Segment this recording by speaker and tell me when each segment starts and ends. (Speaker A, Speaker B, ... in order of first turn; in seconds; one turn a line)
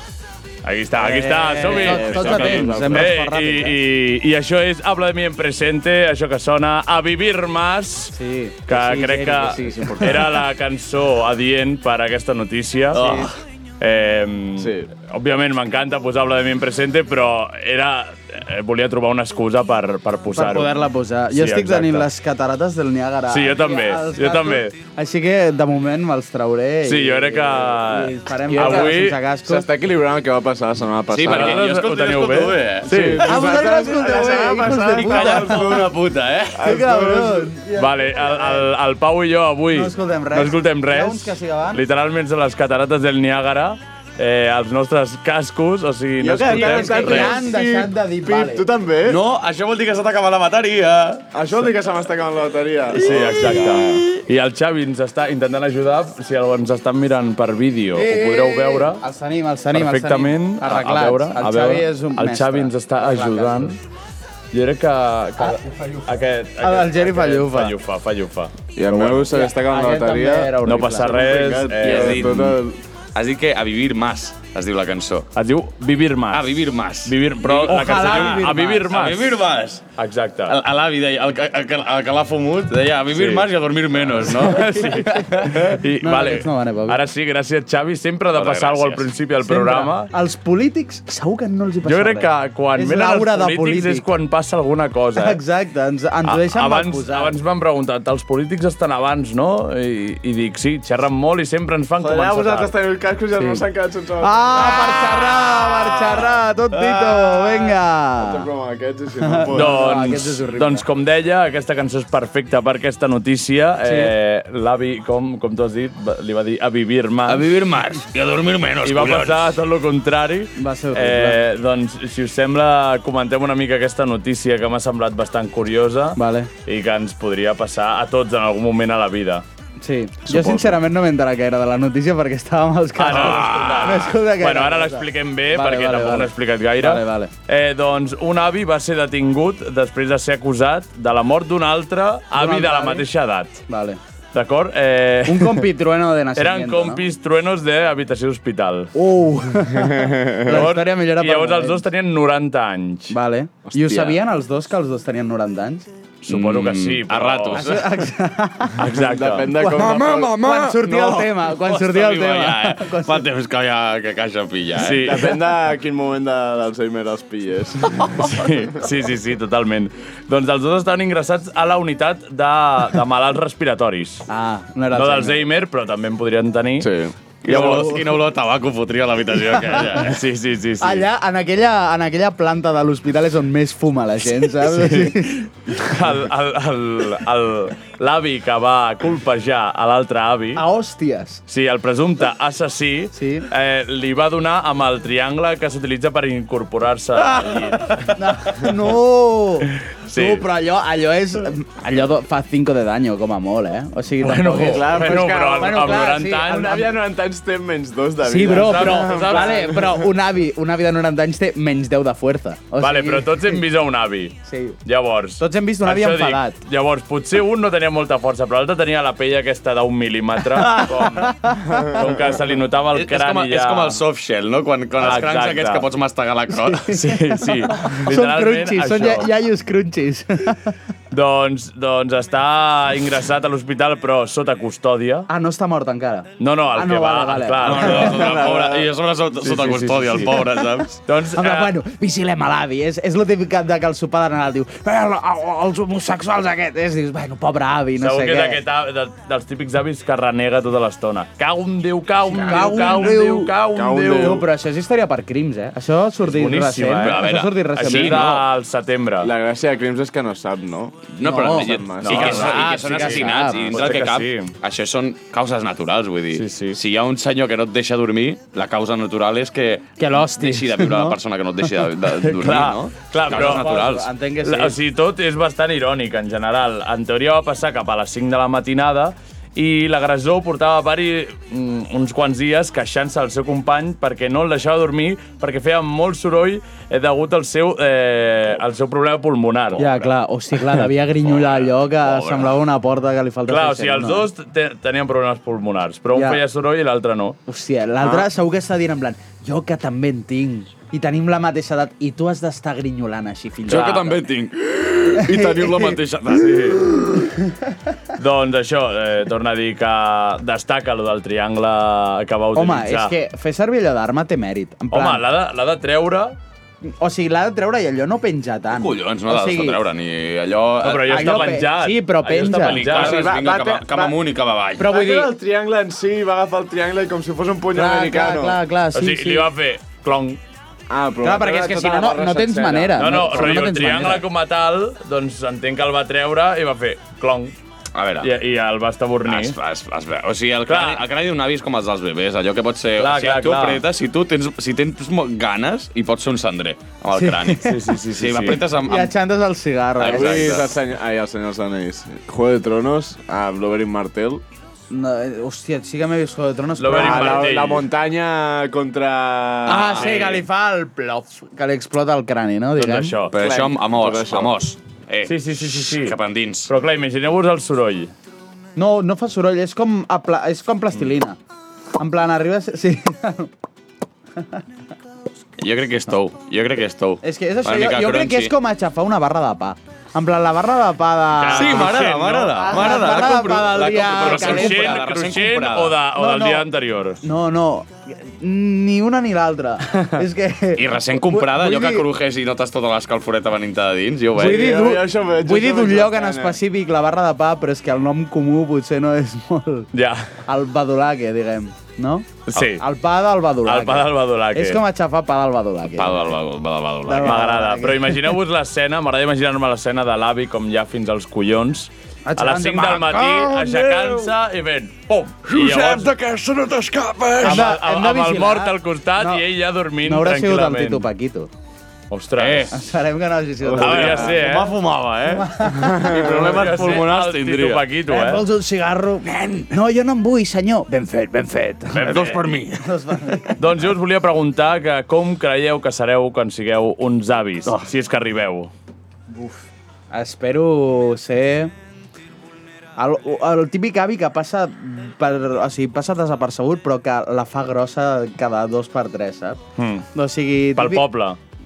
Speaker A: 0.6-8.1
Speaker B: 1.0-3.8
Speaker C: 1.6-3.2
Speaker B: 8.1-10.1
Speaker A: 8.7-13.3
Speaker C: 9.5-10.4
Speaker C: 12.9-13.3
Speaker A: 13.8-20.7
Speaker C: 14.6-14.9
Speaker B: 20.3-29.7
Speaker A: 21.3-22.1
Speaker A: 23.3-24.8
Speaker A: 26.8-29.2
Speaker C: 28.5-31.6
Speaker D: 31.1-33.1
Speaker A: 31.2-33.2
Speaker C: 32.8-35.9
Speaker B: 33.2-35.8
Speaker D: 35.0-36.7
Speaker C: 36.5-37.5
Speaker B: 36.6-38.7
Speaker A: 37.8-47.4
Speaker B: 39.7-41.8
Speaker C: 46.2-49.2
Speaker B: 46.5-48.7
Speaker D: 49.0-51.3
Speaker C: 51.3-54.1
Speaker A: 52.9-59.0
Speaker B: 57.9-63.8
Speaker A: 59.7-63.8
Speaker A: 64.5-69.1
Speaker B: 65.4-67.8
Speaker C: 68.8-72.8
Speaker B: 69.2-71.4
Speaker A: 70.6-72.3
Speaker D: 71.8-72.6
Speaker D: 73.1-75.3
Speaker A: 75.3-79.3
Speaker D: 76.3-79.9
Speaker B: 77.5-78.9
Speaker A: 80.0-80.6
Speaker D: 80.5-85.8
Speaker A: 83.1-83.5
Speaker A: 84.1-90.1
Speaker B: 84.6-87.0
Speaker D: 88.3-89.1
Speaker B: 89.4-94.1
Speaker A: 91.8-95.4
Speaker B: 95.2-97.4
Speaker A: 96.2-102.7
Speaker C: 102.0-110.0
Speaker B: 103.3-103.6
Speaker B: 104.2-108.5
Speaker B: 109.2-110.8
Speaker A: 109.5-117.5
Speaker B: 113.8-114.1
Speaker D: 117.2-119.6
Speaker A: 118.8-129.4
Speaker B: 120.6-121.4
Speaker B: 126.2-126.5
Speaker B: 129.8-137.3
Speaker C: 130.3-130.6
Speaker A: 133.0-143.6
Speaker D: 133.1-134.1
Speaker B: 142.3-143.1
Speaker B: 143.7-144.0
Speaker A: 144.3-145.6
Speaker B: 145.3-147.0
Speaker A: 146.3-148.9
Speaker B: 148.9-151.8
Speaker A: 150.4-153.2
Speaker B: 153.1-155.9
Speaker C: 153.7-154.2
Speaker A: 156.2-157.6
Speaker D: 156.2-157.8
Speaker B: 157.5-158.9
Speaker A: 158.8-159.5
Speaker C: 158.9-160.3
Speaker B: 159.5-163.2
Speaker D: 159.6-165.1
Speaker A: 164.8-165.3
Speaker C: 165.0-168.2
Speaker A: 168.2-174.3
Speaker B: 174.3-175.4
Speaker A: 174.9-176.9
Speaker C: 176.8-177.1
Speaker D: 177.4-180.2
Speaker A: 177.5-177.9
Speaker B: 177.5-178.0
Speaker A: 179.9-181.1
Speaker B: 180.8-185.9
Speaker A: 185.8-190.6
Speaker B: 190.6-191.4
Speaker A: 191.5-198.2
Speaker B: 193.1-193.5
Speaker B: 197.9-206.9
Speaker A: 200.1-200.4
Speaker A: 204.2-206.9
Speaker C: 204.6-210.0
Speaker B: 208.2-213.6
Speaker A: 208.4-209.7
Speaker A: 212.8-224.0
Speaker B: 214.4-214.8
Speaker B: 215.4-216.5
Speaker D: 220.6-221.0
Speaker B: 220.6-222.0
Speaker D: 222.9-227.1
Speaker A: 225.0-225.9
Speaker B: 226.6-230.7
Speaker A: 226.9-229.3
Speaker A: 231.1-235.3
Speaker B: 235.3-238.5
Speaker A: 236.4-238.4
Speaker D: 237.6-241.0
Speaker C: 238.1-238.8
Speaker A: 239.4-240.4
Speaker A: 241.1-241.7
Speaker B: 241.3-248.6
Speaker A: 248.0-254.4
Speaker B: 252.3-253.6
Speaker D: 252.5-252.9
Speaker C: 253.7-254.5
Speaker B: 254.2-258.4
Speaker A: 256.2-259.3
Speaker D: 257.0-258.4
Speaker C: 259.2-262.8
Speaker D: 261.1-274.1
Speaker B: 261.2-263.8
Speaker A: 262.0-264.5
Speaker A: 266.3-266.8
Speaker B: 270.0-271.2
Speaker A: 272.4-273.8
Speaker B: 273.3-274.8
Speaker A: 274.4-290.1
Speaker B: 289.8-294.3
Speaker D: 291.2-292.6
Speaker A: 293.5-297.4
Speaker B: 296.1-296.4
Speaker B: 297.5-304.2
Speaker C: 298.0-298.3
Speaker D: 303.6-306.9
Speaker A: 303.7-304.0
Speaker B: 305.2-306.0
Speaker C: 305.4-305.8
Speaker A: 306.3-306.8
Speaker B: 307.2-307.7
Speaker A: 308.2-313.1
Speaker B: 312.5-315.2
Speaker A: 314.9-316.4
Speaker B: 316.8-319.8
Speaker D: 318.7-321.7
Speaker A: 320.8-323.2
Speaker B: 321.0-322.9
Speaker D: 322.4-325.0
Speaker C: 322.9-324.2
Speaker B: 324.8-325.3
Speaker C: 324.8-328.6
Speaker B: 327.7-329.5
Speaker A: 328.9-330.4
Speaker C: 330.9-333.6
Speaker B: 331.2-334.2
Speaker A: 333.0-337.5
Speaker D: 337.9-338.3
Speaker A: 338.2-339.6
Speaker D: 339.2-349.1
Speaker A: 340.7-341.0
Speaker A: 343.0-343.8
Speaker B: 347.1-347.9
Speaker A: 347.6-348.6
Speaker B: 348.7-350.7
Speaker D: 350.0-350.8
Speaker C: 350.0-354.4
Speaker B: 354.9-357.6
Speaker A: 356.8-357.9
Speaker C: 356.9-360.1
Speaker B: 359.6-363.2
Speaker A: 359.9-360.4
Speaker A: 362.8-363.3
Speaker D: 363.3-366.7
Speaker C: 363.3-364.5
Speaker A: 365.2-368.1
Speaker B: 368.8-371.4
Speaker B: 372.0-373.5
Speaker D: 375.6-378.5
Speaker B: 377.2-385.0
Speaker A: 381.4-383.3
Speaker D: 381.5-386.0
Speaker A: 384.0-387.2
Speaker B: 386.1-386.7
Speaker B: 387.2-392.1
Speaker D: 390.7-394.8
Speaker B: 394.3-399.9
Speaker C: 394.4-396.6
Speaker A: 399.9-400.3
Speaker B: 400.4-406.4
Speaker A: 402.4-402.8
Speaker A: 403.6-404.8
Speaker D: 405.8-407.5
Speaker B: 407.1-408.4
Speaker A: 407.2-416.1
Speaker B: 412.2-413.1
Speaker D: 412.7-414.3
Speaker D: 415.4-417.8
Speaker A: 417.4-421.0
Speaker B: 417.4-421.5
Speaker A: 422.1-422.7
Speaker D: 422.4-422.8
Speaker B: 422.7-424.7
Speaker C: 423.6-424.2
Speaker D: 423.7-427.9
Speaker A: 423.8-424.8
Speaker B: 425.2-426.4
Speaker C: 426.0-426.5
Speaker A: 426.3-428.4
Speaker B: 428.1-433.6
Speaker D: 429.2-429.7
Speaker D: 431.9-433.4
Speaker A: 431.9-432.3
Speaker A: 433.6-438.7
Speaker B: 439.3-441.7
Speaker B: 443.0-449.6
Speaker A: 449.8-450.1
Speaker B: 450.1-451.1
Speaker A: 450.8-451.4